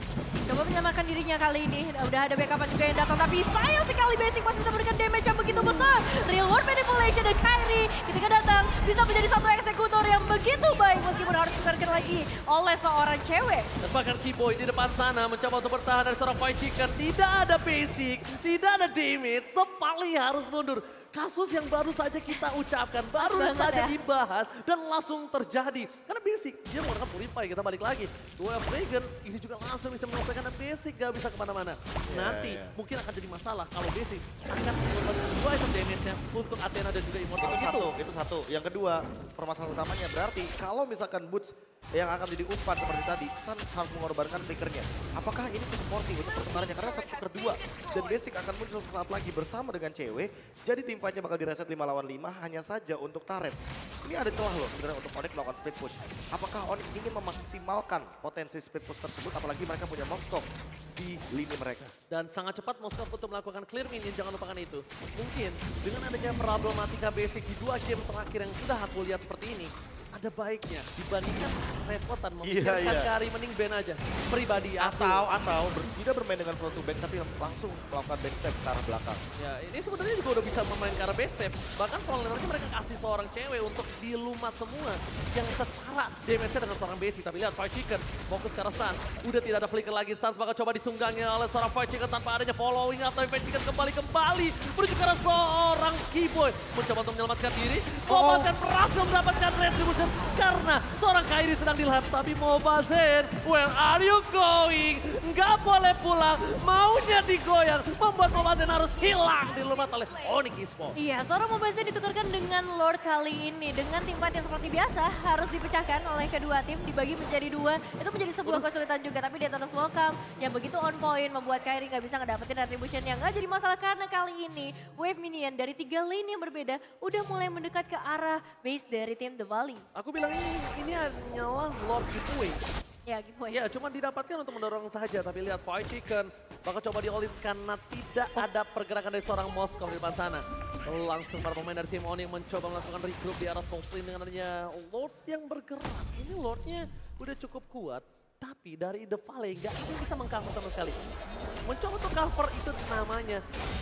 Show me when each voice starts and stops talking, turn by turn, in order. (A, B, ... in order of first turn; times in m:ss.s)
0:00.5-0:13.7 A
0:05.5-0:05.8 B
0:13.8-0:37.9 C
0:23.2-0:23.9 A
0:32.1-0:32.8 B
0:37.4-1:01.9 B
1:02.1-1:15.2 C
1:12.4-1:13.1 B
1:14.8-1:19.2 B
1:19.4-1:51.0 C
1:38.1-1:38.5 B
1:51.0-2:09.8 A
2:09.9-2:12.6 C
2:13.0-2:13.6 A
2:13.5-2:31.0 C
2:31.7-2:33.4 C